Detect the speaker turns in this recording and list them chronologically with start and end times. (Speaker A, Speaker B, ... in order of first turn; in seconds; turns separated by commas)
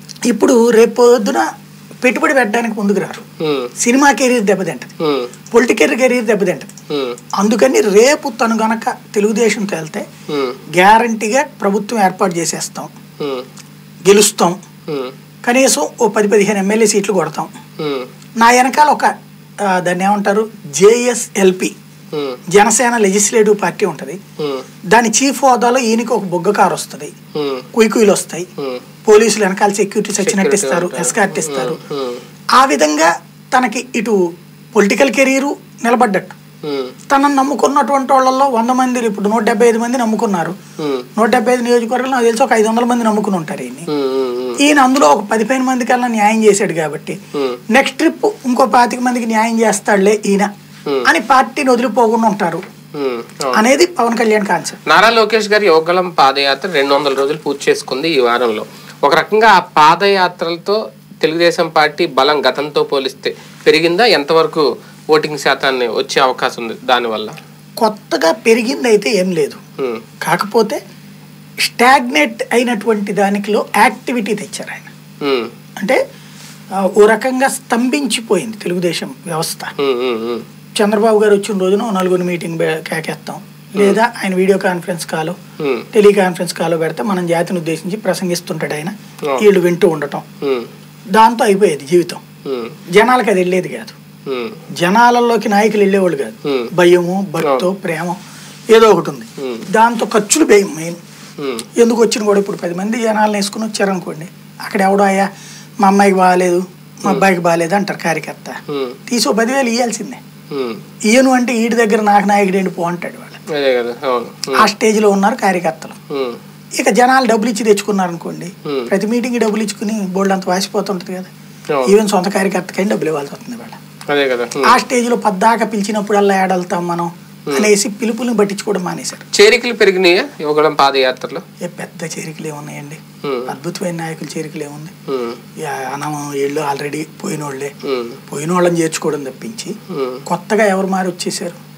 Speaker A: 0.3-1.5, Speaker A: 2.0-3.2, Speaker B: 3.4-3.7, Speaker A: 3.8-4.9, Speaker B: 5.0-5.3, Speaker A: 5.5-6.7, Speaker B: 6.9-7.2, Speaker A: 7.4-10.1, Speaker B: 10.3-10.6, Speaker A: 10.8-12.9, Speaker B: 13.2-13.5, Speaker A: 14.1-14.6, Speaker B: 14.9-15.1, Speaker A: 15.4-17.5, Speaker B: 17.8-18.1, Speaker A: 18.4-19.1, Speaker A: 19.6-21.7, Speaker B: 22.1-22.4, Speaker A: 22.5-24.2, Speaker A: 24.9-27.1, Speaker B: 27.4-27.7, Speaker A: 27.7-28.5, Speaker A: 29.0-31.8, Speaker B: 30.2-32.2, Speaker A: 32.5-34.2, Speaker A: 34.7-36.4, Speaker B: 36.6-36.9, Speaker A: 37.1-40.5, Speaker B: 40.8-41.0, Speaker A: 41.2-43.9, Speaker B: 43.9-44.6, Speaker A: 44.6-47.2, Speaker A: 47.7-50.5, Speaker A: 51.0-52.6, Speaker B: 52.9-53.6, Speaker A: 53.5-54.8, Speaker B: 54.9-67.3, Speaker A: 67.8-69.6, Speaker A: 70.2-70.8, Speaker A: 71.6-74.9, Speaker B: 75.2-75.5, Speaker A: 76.8-79.7, Speaker B: 79.8-80.4, Speaker A: 80.8-85.3, Speaker B: 85.6-85.9, Speaker A: 85.9-90.2, Speaker B: 90.4-90.7, Speaker A: 91.2-92.2, Speaker B: 92.4-92.8, Speaker A: 92.9-94.0, Speaker B: 94.3-94.6, Speaker A: 94.8-98.2, Speaker B: 96.4-96.7, Speaker B: 97.4-97.7, Speaker A: 98.7-101.0, Speaker B: 99.4-99.7, Speaker B: 101.4-101.7, Speaker A: 101.8-105.3, Speaker A: 105.8-110.2, Speaker B: 108.7-109.0, Speaker B: 110.5-110.8, Speaker A: 111.1-113.4, Speaker B: 113.5-114.6, Speaker A: 114.5-116.0, Speaker B: 116.1-116.4, Speaker A: 116.8-121.3, Speaker A: 121.8-123.8, Speaker B: 124.1-124.7, Speaker A: 124.6-129.3, Speaker B: 129.3-131.4, Speaker A: 131.6-134.9, Speaker B: 133.2-133.5, Speaker B: 135.1-135.4, Speaker A: 135.6-137.7, Speaker B: 137.8-138.2, Speaker A: 138.3-139.7, Speaker B: 139.9-140.2, Speaker A: 140.3-141.6